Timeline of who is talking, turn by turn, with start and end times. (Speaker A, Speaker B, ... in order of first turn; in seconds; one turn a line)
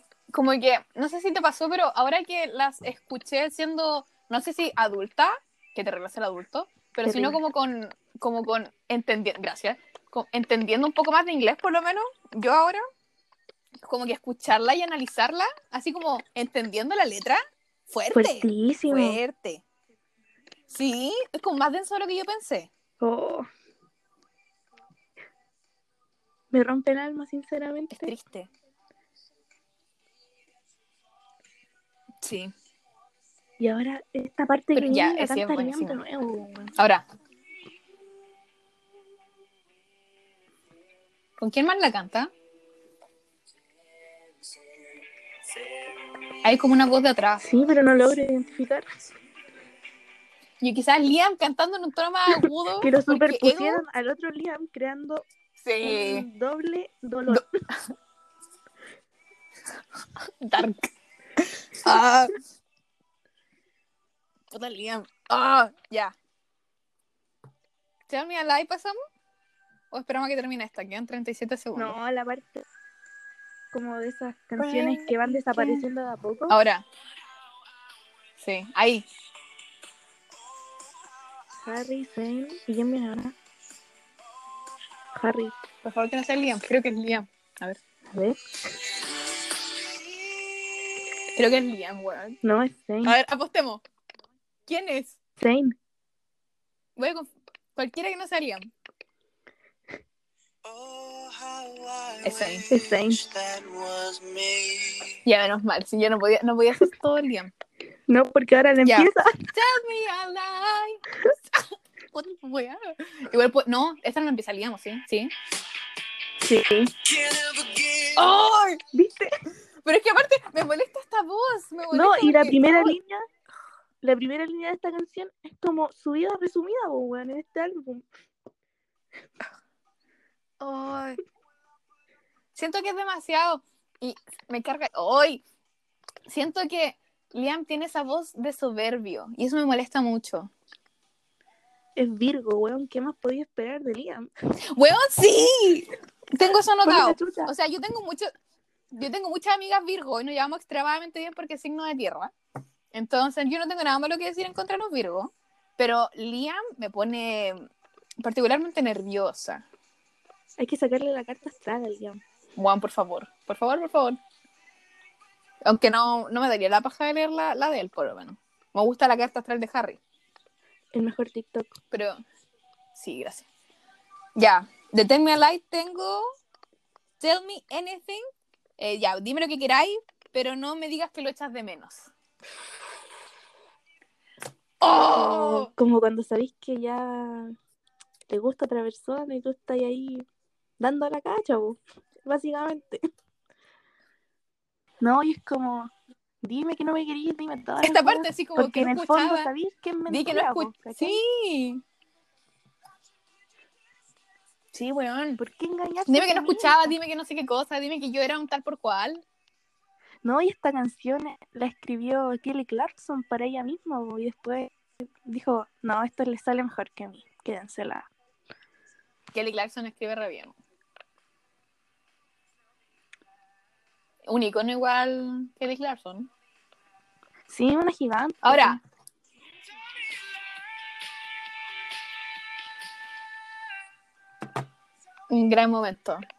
Speaker A: 0.3-12.8
Speaker B: 7.0-7.4
Speaker A: 13.8-19.6
Speaker B: 18.1-19.2
Speaker A: 20.7-22.7
Speaker B: 23.0-23.4
Speaker B: 26.5-28.1
Speaker A: 27.9-28.5
Speaker A: 32.2-32.5
Speaker B: 33.6-36.7
Speaker A: 34.7-36.0
Speaker A: 36.8-37.0
Speaker A: 41.4-42.3
Speaker C: 44.5-44.7
Speaker C: 45.5-46.3
Speaker A: 46.4-47.5
Speaker B: 47.4-48.9
Speaker A: 50.6-53.8
Speaker B: 52.4-55.2
Speaker A: 55.6-56.2
Speaker B: 55.8-57.5
Speaker A: 60.4-62.4
Speaker A: 64.5-66.1
Speaker A: 68.1-69.0
Speaker A: 69.9-72.0
Speaker B: 71.8-72.6
Speaker B: 73.7-76.6
Speaker A: 74.6-75.9
Speaker A: 76.5-76.8
Speaker A: 78.4-79.0
Speaker B: 81.6-83.3
Speaker B: 85.2-85.5
Speaker A: 85.8-87.8
Speaker B: 88.1-88.4
Speaker A: 91.3-92.4
Speaker B: 92.4-93.2
Speaker A: 93.0-93.8
Speaker A: 94.7-95.2
Speaker B: 95.4-95.8
Speaker A: 97.0-98.7
Speaker C: 100.6-105.2
Speaker A: 102.2-102.7
Speaker B: 102.7-103.2
Speaker A: 105.2-107.5
Speaker B: 108.1-109.5
Speaker A: 108.8-111.0
Speaker A: 111.5-115.3
Speaker B: 116.4-116.9
Speaker C: 117.0-118.3
Speaker A: 118.2-118.8
Speaker B: 118.9-119.3
Speaker A: 119.8-123.0
Speaker B: 121.9-123.2
Speaker B: 124.0-128.1
Speaker A: 130.6-131.2
Speaker A: 132.5-135.4
Speaker A: 136.3-140.5
Speaker B: 142.0-144.3
Speaker A: 144.7-148.3
Speaker B: 146.8-147.5
Speaker A: 148.9-152.3
Speaker A: 152.9-157.6
Speaker A: 158.2-159.6
Speaker B: 160.6-162.2
Speaker A: 162.6-164.2
Speaker A: 165.6-170.0
Speaker B: 170.9-171.8
Speaker A: 171.9-172.2
Speaker A: 172.9-173.5
Speaker A: 174.3-176.2
Speaker A: 177.2-178.2
Speaker A: 178.8-182.1
Speaker A: 184.8-185.7
Speaker B: 184.9-187.5
Speaker B: 188.3-190.2
Speaker B: 190.8-193.0
Speaker B: 195.0-201.2
Speaker A: 197.8-199.5
Speaker A: 200.1-201.8
Speaker A: 204.7-205.4
Speaker B: 205.4-206.9
Speaker A: 206.1-209.2
Speaker B: 210.2-218.1
Speaker A: 219.3-220.5
Speaker A: 224.2-226.3
Speaker B: 227.5-228.8
Speaker A: 228.4-228.8
Speaker A: 235.3-236.2